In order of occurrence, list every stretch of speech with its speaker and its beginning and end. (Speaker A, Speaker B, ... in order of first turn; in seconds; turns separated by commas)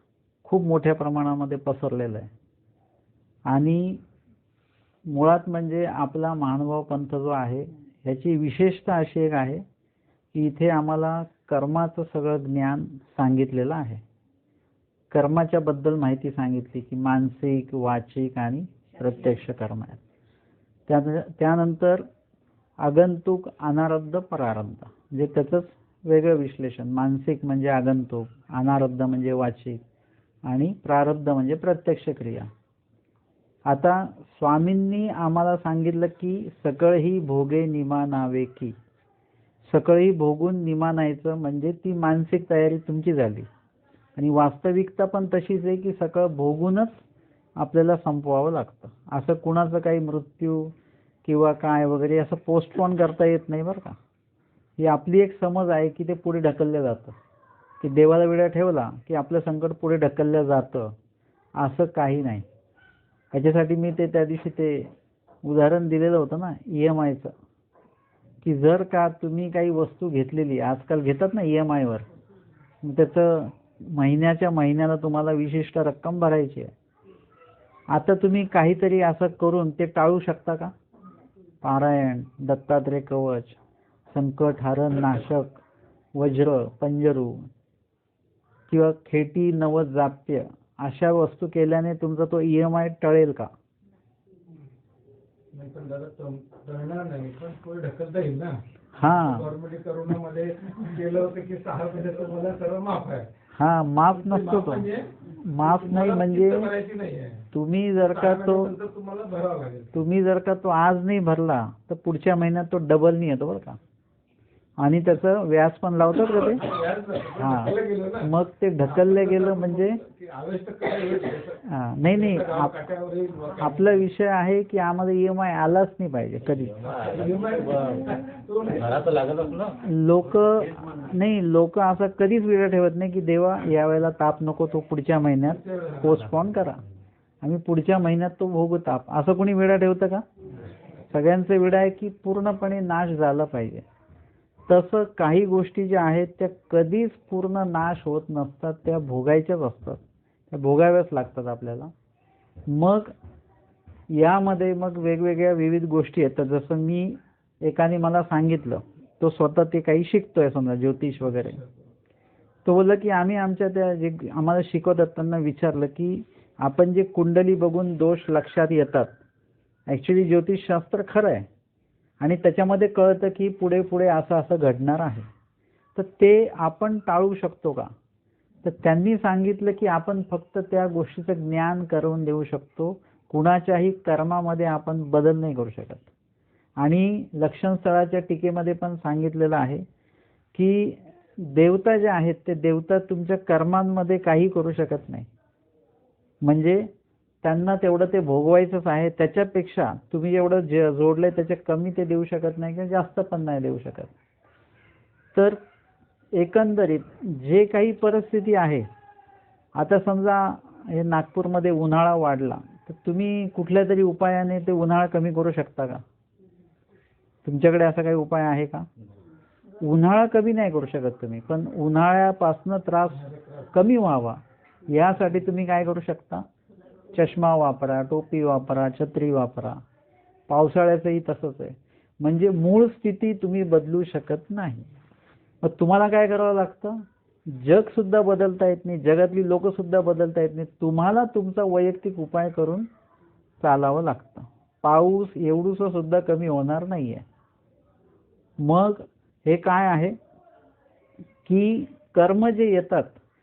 Speaker A: 0.4-2.3, Speaker A: 3.5-4.0, Speaker A: 5.1-9.7, Speaker A: 10.3-14.0, Speaker A: 15.1-20.0, Speaker A: 20.9-22.1, Speaker A: 22.8-29.8, Speaker A: 30.4-32.5, Speaker A: 33.7-38.8, Speaker A: 39.6-43.5, Speaker A: 44.2-47.0, Speaker A: 47.6-50.7, Speaker A: 51.2-54.0, Speaker A: 54.8-57.2, Speaker A: 57.8-61.0, Speaker A: 61.6-62.5, Speaker A: 63.3-64.9, Speaker A: 65.4-67.3, Speaker A: 68.4-72.1, Speaker A: 72.8-76.7, Speaker A: 77.9-80.7, Speaker A: 81.6-83.6, Speaker A: 84.1-85.6, Speaker A: 86.1-87.5, Speaker A: 88.7-93.5, Speaker B: 95.5-98.6, Speaker A: 99.0-99.5, Speaker B: 99.1-103.3, Speaker A: 103.5-106.7, Speaker B: 104.1-107.5, Speaker A: 107.5-108.7, Speaker B: 108.1-110.0, Speaker A: 109.9-113.8, Speaker A: 114.8-116.6, Speaker B: 116.6-118.3, Speaker A: 117.4-120.0, Speaker B: 118.8-124.0, Speaker A: 121.7-122.8, Speaker A: 123.6-126.8, Speaker B: 126.8-129.0, Speaker C: 127.0-128.0, Speaker C: 128.8-129.8, Speaker A: 129.8-136.8, Speaker B: 135.7-136.2, Speaker A: 137.4-140.2, Speaker A: 141.1-143.8, Speaker A: 144.7-151.9, Speaker A: 152.7-153.1, Speaker A: 154.1-161.6, Speaker A: 162.7-169.2, Speaker A: 169.9-171.5, Speaker A: 172.2-175.3, Speaker A: 175.9-177.9, Speaker A: 178.6-186.1, Speaker A: 186.8-189.8, Speaker A: 190.5-195.3, Speaker A: 196.4-196.9, Speaker A: 197.4-204.1, Speaker A: 205.3-205.6, Speaker A: 206.3-208.9, Speaker A: 209.7-216.0, Speaker A: 217.4-218.9, Speaker A: 219.8-226.5, Speaker B: 223.2-223.7, Speaker A: 227.1-229.8, Speaker A: 230.5-234.9, Speaker A: 235.6-242.9, Speaker A: 243.6-247.2, Speaker A: 248.6-250.2, Speaker A: 251.5-253.2